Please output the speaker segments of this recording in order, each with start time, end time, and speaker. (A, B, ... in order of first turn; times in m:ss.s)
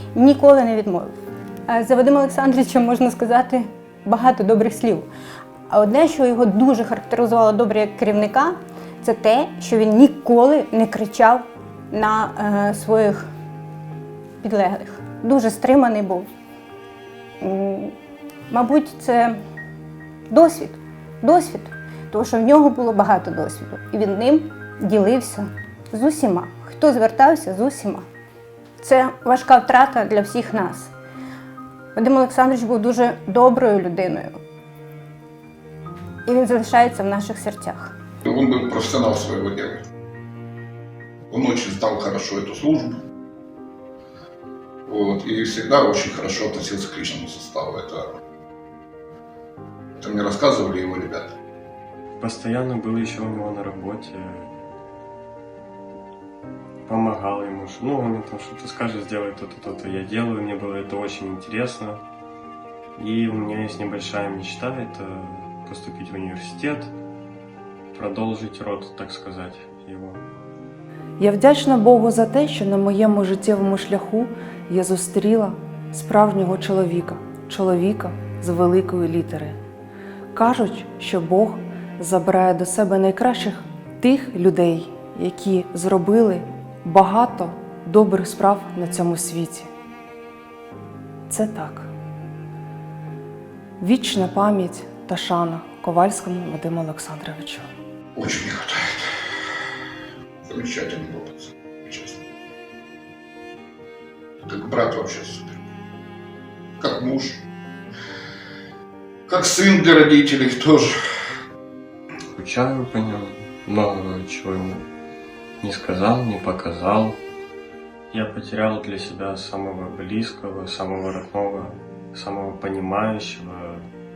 0:00.2-0:01.1 A
0:01.7-0:05.1 A
0:05.7-0:13.2 A
0:14.4-0:16.3 A
0:17.4-0:17.9 A
0:18.5-0:19.4 A
0:20.3-0:28.0 A
0:28.8-0:30.9 A
0:32.0-0:34.3 A
0:36.3-0:37.9 A
0:38.3-0:39.8 B
0:41.3-0:43.0 B
0:44.9-0:48.1 B
0:50.0-0:51.4 B
0:52.2-0:54.5 C
0:56.9-1:02.0 C
1:03.0-1:06.9 C
1:07.9-1:10.2 C
1:11.2-1:19.6 D
1:20.4-1:29.7 D
1:31.3-1:31.9 D
1:33.8-1:37.7 D
1:38.2-1:39.0 B
1:40.4-1:42.2 B
1:44.4-1:45.6 B
1:46.8-1:47.4 B
1:49.3-1:50.9 B
1:52.4-1:54.9 C
1:55.6-1:57.2 C
1:58.1-2:03.9 C